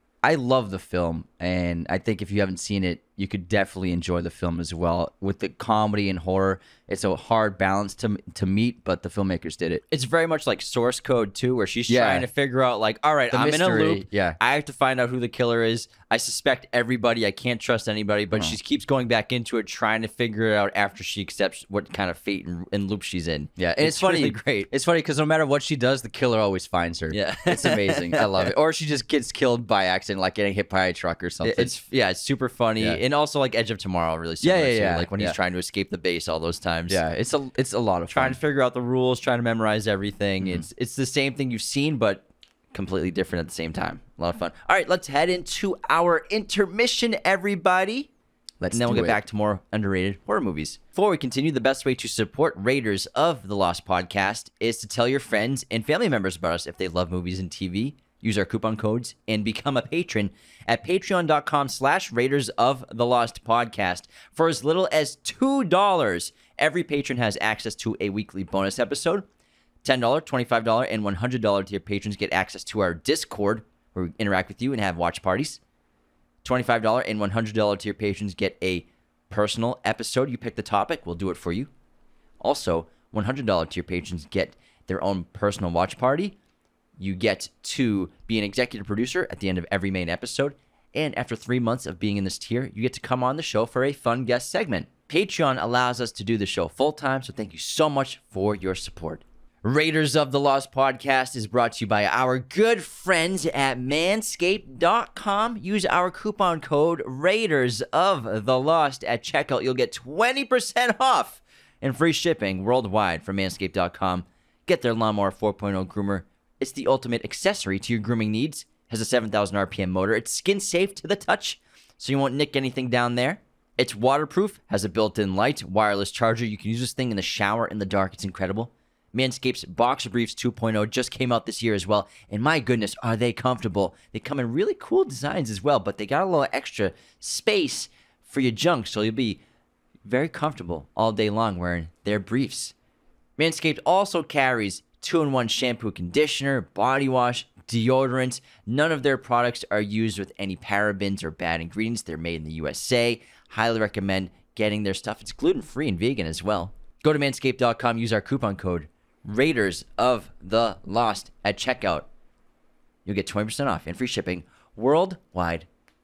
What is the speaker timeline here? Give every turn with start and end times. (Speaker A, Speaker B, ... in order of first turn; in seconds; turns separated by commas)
Speaker A: 0.2-9.8, Speaker B: 9.9-24.7, Speaker A: 11.9-12.3, Speaker A: 13.3-14.4, Speaker A: 23.6-31.7, Speaker B: 27.1-28.5, Speaker B: 31.4-37.0, Speaker A: 34.4-35.4, Speaker A: 36.9-38.4, Speaker B: 38.1-48.1, Speaker A: 48.6-49.2, Speaker B: 48.7-69.2, Speaker B: 69.8-75.6, Speaker B: 76.4-81.7, Speaker B: 82.4-86.3, Speaker B: 87.0-139.4, Speaker B: 140.0-142.7, Speaker B: 143.4-162.1, Speaker B: 163.0-165.7